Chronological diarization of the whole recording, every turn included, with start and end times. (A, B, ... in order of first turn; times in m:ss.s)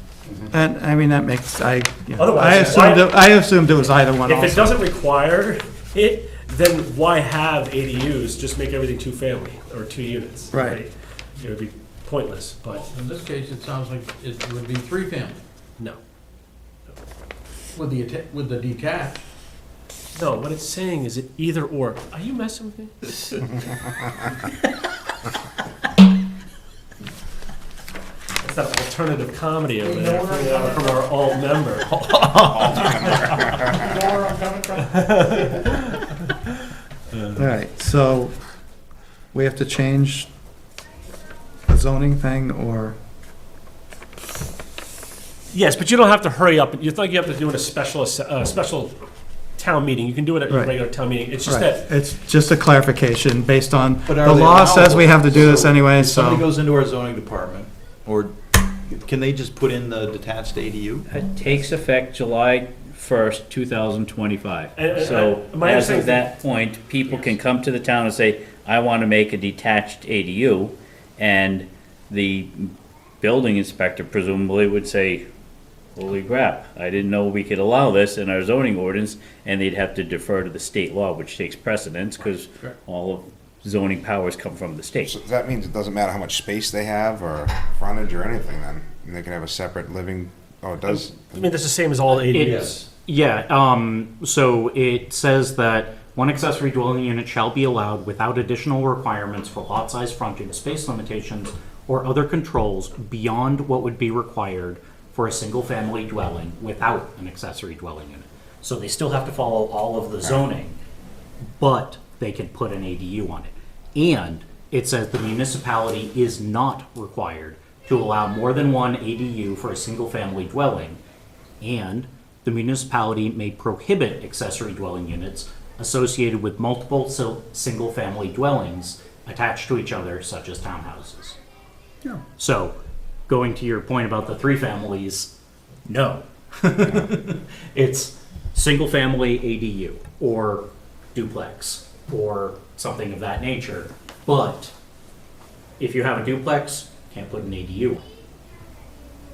0:00.5-0:04.8 A
0:02.2-0:03.1 B
0:04.2-0:12.9 B
0:10.5-0:10.8 A
0:12.7-0:15.4 C
0:17.7-0:19.2 C
0:20.1-0:23.4 B
0:28.4-0:33.3 B
0:29.8-0:31.2 C
0:32.5-0:34.0 D
0:34.0-0:35.4 C
0:34.8-0:36.0 B
0:37.4-0:38.4 A
0:39.3-0:40.3 A
0:41.7-0:43.0 A
0:45.5-0:49.0 B
0:49.6-0:51.9 B
0:50.5-0:50.8 A
0:51.5-0:56.4 A
0:54.0-1:01.0 E
1:01.1-1:15.2 F
1:04.8-1:06.3 B
1:15.9-1:25.2 F
1:25.0-1:31.5 D
1:30.9-1:32.9 B
1:32.3-1:50.8 G
1:51.6-2:01.0 G
2:01.6-2:11.4 G
2:12.4-2:12.8 G
2:13.3-2:15.3 G
2:15.9-2:24.7 G
2:25.8-2:28.0 G